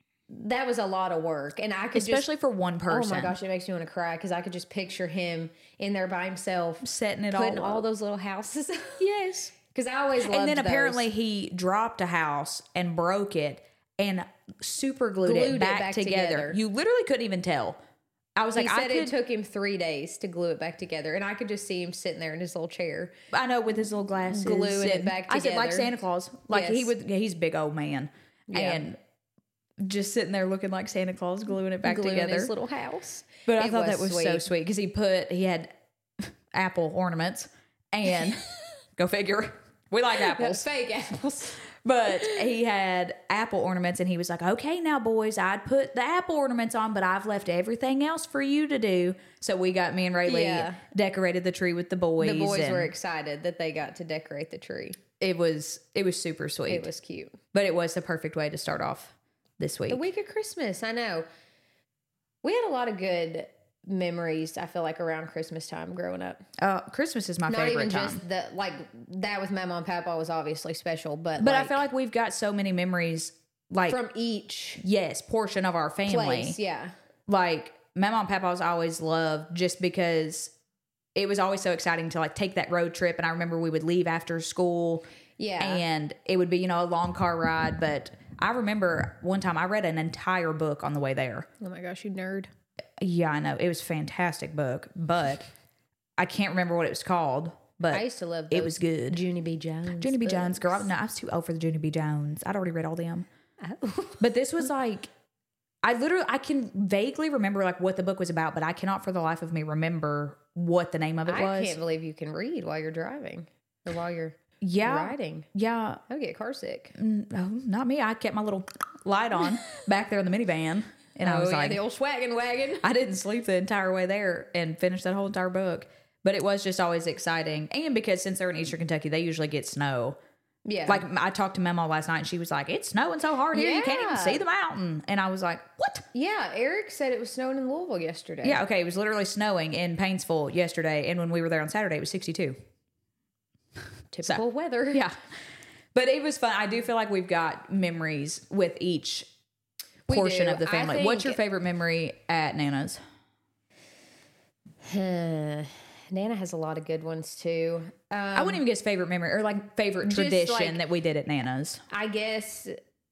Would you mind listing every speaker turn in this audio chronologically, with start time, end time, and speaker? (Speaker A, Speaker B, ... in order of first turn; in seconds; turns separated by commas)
Speaker A: 0.3-2.3, Speaker B: 1.9-3.4, Speaker A: 2.9-9.0, Speaker B: 6.8-7.8, Speaker B: 9.0-9.5, Speaker A: 9.6-11.1, Speaker B: 10.2-17.8, Speaker A: 15.2-16.6, Speaker B: 18.4-19.1, Speaker A: 18.6-23.1, Speaker B: 23.3-29.0, Speaker A: 24.3-25.9, Speaker A: 26.5-26.9, Speaker A: 28.5-28.8, Speaker B: 29.8-32.5, Speaker A: 31.8-34.5, Speaker B: 33.5-35.7, Speaker B: 36.2-40.6, Speaker A: 40.1-41.6, Speaker B: 41.7-52.9, Speaker A: 50.3-50.8, Speaker A: 52.2-55.0, Speaker B: 55.2-56.9, Speaker A: 56.7-57.4, Speaker B: 57.5-60.1, Speaker A: 59.9-61.2, Speaker A: 62.4-66.4, Speaker B: 66.6-68.2, Speaker A: 67.5-71.8, Speaker B: 71.4-74.0, Speaker A: 73.9-74.8, Speaker B: 74.8-76.6, Speaker A: 76.1-76.9, Speaker B: 77.3-80.5, Speaker B: 81.2-85.0, Speaker A: 85.4-85.8, Speaker B: 85.6-91.5, Speaker A: 91.6-92.5, Speaker B: 93.0-95.5, Speaker B: 96.2-99.2, Speaker A: 97.9-100.9, Speaker B: 100.0-103.3, Speaker A: 103.6-104.2, Speaker B: 104.2-105.1, Speaker B: 105.8-111.8, Speaker A: 111.3-115.5, Speaker B: 114.6-116.0, Speaker A: 116.1-117.0, Speaker B: 117.0-121.8, Speaker A: 121.2-122.8, Speaker B: 122.8-130.2, Speaker A: 130.7-131.1, Speaker B: 130.9-136.1, Speaker A: 133.5-134.4, Speaker A: 136.1-138.6, Speaker B: 138.4-142.6, Speaker A: 144.1-145.1, Speaker B: 144.2-145.2, Speaker B: 145.9-149.3, Speaker A: 150.1-151.4, Speaker B: 150.1-153.0, Speaker A: 154.8-158.6, Speaker B: 158.3-161.8, Speaker A: 160.1-160.8, Speaker A: 161.9-162.8